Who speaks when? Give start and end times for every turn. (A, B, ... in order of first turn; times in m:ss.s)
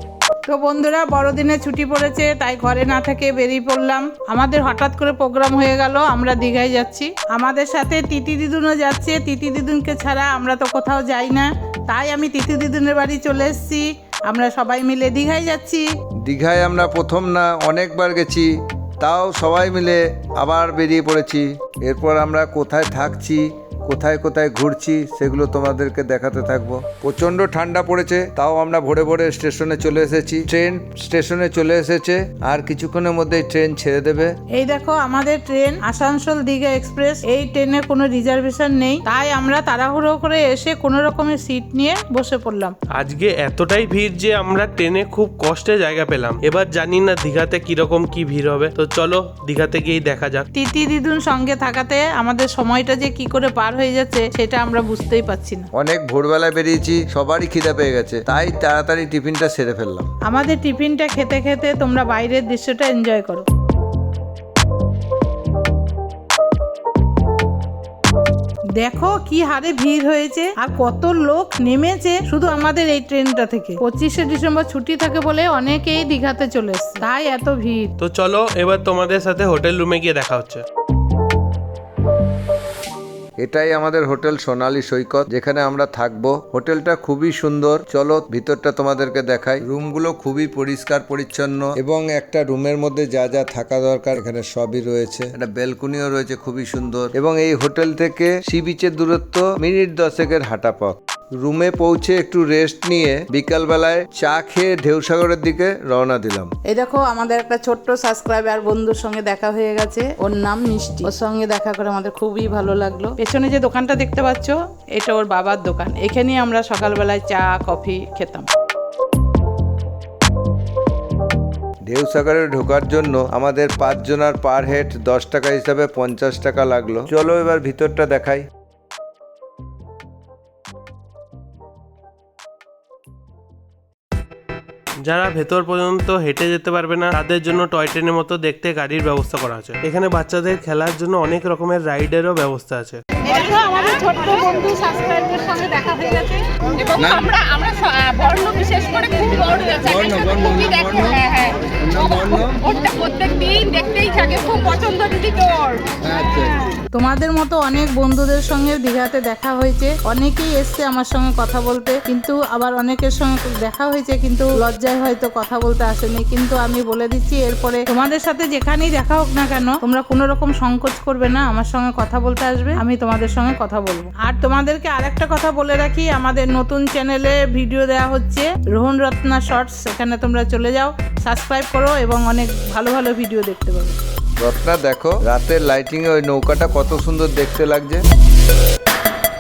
0:00.5-0:15.9 A
0:16.2-0:34.3 B
0:34.5-0:42.7 A
0:43.0-0:50.5 C
0:50.5-0:55.7 A
0:55.7-1:00.1 B
1:00.3-1:03.5 A
1:08.8-1:17.9 A
1:18.0-1:20.6 C
1:23.4-1:46.5 B
1:46.7-1:58.5 A
2:01.9-2:08.5 B
2:15.0-2:23.0 C
2:23.5-2:26.1 D
2:23.6-2:24.5 A
2:25.2-2:26.2 A
2:26.8-2:31.6 D
2:29.9-2:31.2 B
2:31.7-2:32.6 B
2:32.6-2:35.8 D
2:36.1-2:36.4 B
2:36.9-3:04.0 A
3:04.4-3:08.0 B